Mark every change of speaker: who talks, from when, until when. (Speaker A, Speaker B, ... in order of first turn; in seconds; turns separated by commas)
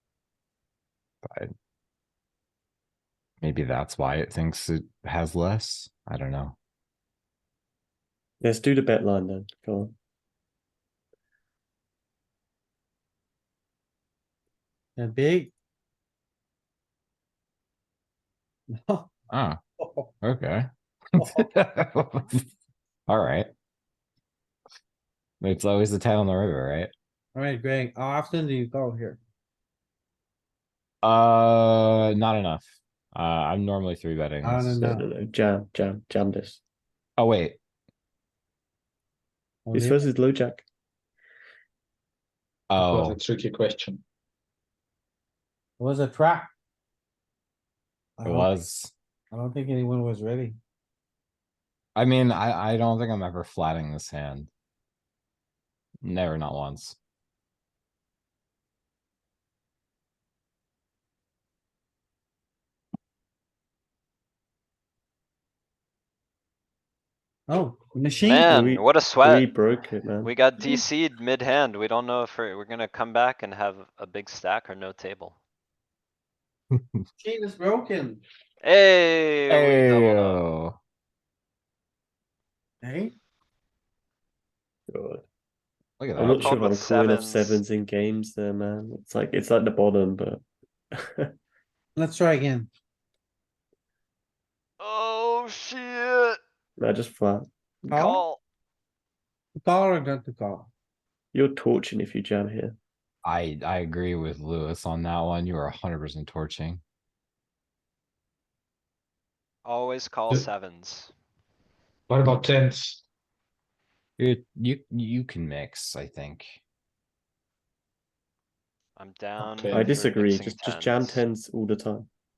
Speaker A: 1.2-1.5, Speaker A: 3.4-6.5, Speaker B: 8.4-9.9, Speaker C: 15.0-15.5, Speaker C: 18.7-19.1, Speaker A: 19.3-19.6, Speaker C: 19.8-20.1, Speaker A: 20.2-22.4, Speaker C: 21.2-21.4, Speaker A: 23.1-23.5, Speaker A: 25.4-26.9, Speaker C: 27.3-29.2, Speaker A: 31.0-34.8, Speaker C: 34.4-35.0, Speaker B: 34.8-36.6, Speaker A: 37.2-37.6, Speaker C: 39.6-40.1, Speaker B: 39.7-40.6, Speaker A: 42.7-43.2, Speaker D: 42.8-44.0, Speaker C: 45.8-46.5, Speaker C: 48.2-48.5, Speaker A: 48.2-48.9, Speaker C: 49.3-50.5, Speaker A: 51.9-54.5, Speaker A: 56.0-57.0, Speaker C: 67.5-68.5, Speaker E: 68.2-69.5, Speaker B: 68.4-70.3, Speaker E: 70.2-75.4, Speaker C: 77.2-78.2, Speaker E: 78.6-80.4, Speaker A: 79.5-80.8, Speaker C: 82.8-83.2, Speaker B: 84.9-85.2, Speaker A: 86.0-86.6, Speaker B: 86.2-90.4, Speaker E: 86.2-87.6, Speaker B: 90.9-91.3, Speaker C: 92.0-92.7, Speaker E: 94.8-96.4, Speaker B: 96.8-98.2, Speaker E: 97.9-98.4, Speaker C: 97.9-98.2, Speaker C: 99.6-100.7, Speaker B: 101.3-102.8, Speaker A: 103.2-106.8, Speaker E: 109.6-111.1, Speaker D: 112.1-113.0, Speaker A: 114.2-116.6, Speaker E: 119.0-121.2, Speaker D: 119.4-119.9, Speaker B: 119.7-122.1